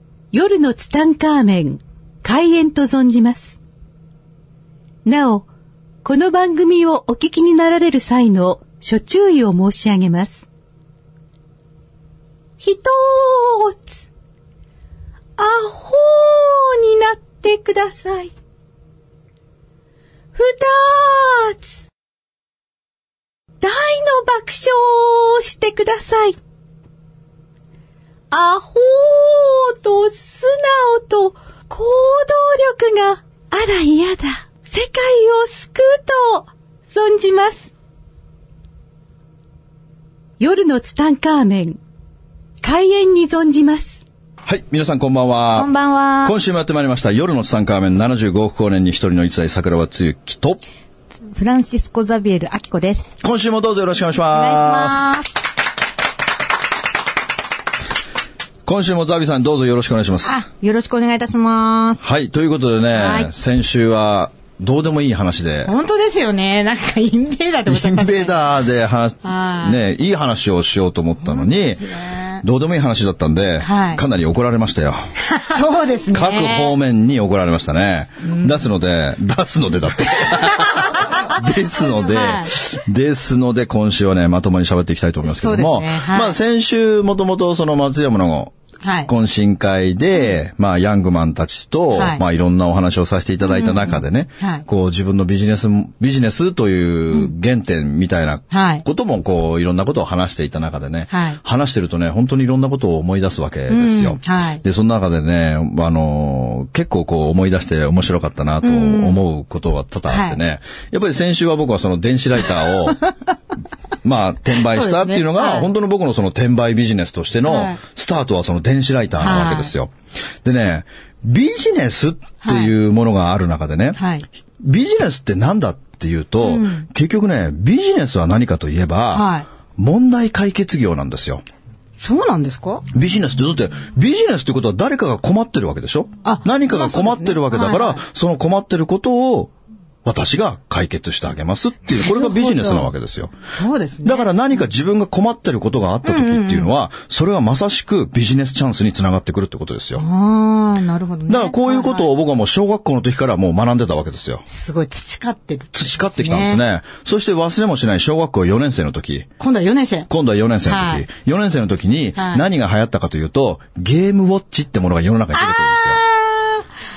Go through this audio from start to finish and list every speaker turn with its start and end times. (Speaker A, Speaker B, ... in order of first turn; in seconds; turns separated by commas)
Speaker A: 0.3-3.6, Speaker A: 5.0-5.5, Speaker A: 6.0-10.4, Speaker A: 12.6-13.9, Speaker A: 15.4-18.3, Speaker A: 20.4-21.7, Speaker A: 23.6-26.4, Speaker A: 28.3-37.7, Speaker A: 40.4-41.8, Speaker A: 42.6-44.0, Speaker B: 44.5-45.7, Speaker C: 45.6-46.4, Speaker B: 46.2-50.6, Speaker C: 51.3-53.1, Speaker B: 53.2-55.2, Speaker C: 54.3-55.3, Speaker B: 58.7-60.5, Speaker C: 60.2-62.0, Speaker B: 62.0-65.7, Speaker C: 62.9-63.3, Speaker C: 65.7-68.6, Speaker B: 67.7-75.2, Speaker C: 69.2-69.8, Speaker C: 71.2-72.4, Speaker C: 73.6-74.0, Speaker C: 75.2-76.8, Speaker B: 76.1-88.5, Speaker C: 78.2-78.6, Speaker C: 80.4-82.5, Speaker C: 85.2-86.4, Speaker C: 88.8-89.1, Speaker B: 89.1-113.0, Speaker C: 91.9-92.2, Speaker C: 93.5-94.7, Speaker C: 98.5-98.9, Speaker C: 101.1-101.4, Speaker C: 103.7-104.6, Speaker C: 108.6-109.2, Speaker C: 110.1-110.4, Speaker B: 114.0-124.0, Speaker C: 114.5-115.7, Speaker C: 117.5-117.8, Speaker C: 119.2-119.7, Speaker C: 122.4-122.7, Speaker C: 124.0-124.3, Speaker B: 124.6-131.4, Speaker C: 126.4-126.9, Speaker C: 129.1-129.5, Speaker C: 132.0-132.8, Speaker B: 132.9-139.5, Speaker C: 136.2-138.0, Speaker B: 140.0-143.3, Speaker C: 141.9-142.9, Speaker C: 143.5-144.3, Speaker B: 144.0-150.1, Speaker C: 146.0-146.7, Speaker C: 150.0-152.1, Speaker B: 151.3-154.4, Speaker C: 154.5-156.6, Speaker B: 155.7-159.3, Speaker C: 159.4-160.1, Speaker B: 160.1-166.0, Speaker C: 160.7-161.1, Speaker C: 162.2-162.4, Speaker C: 165.3-166.7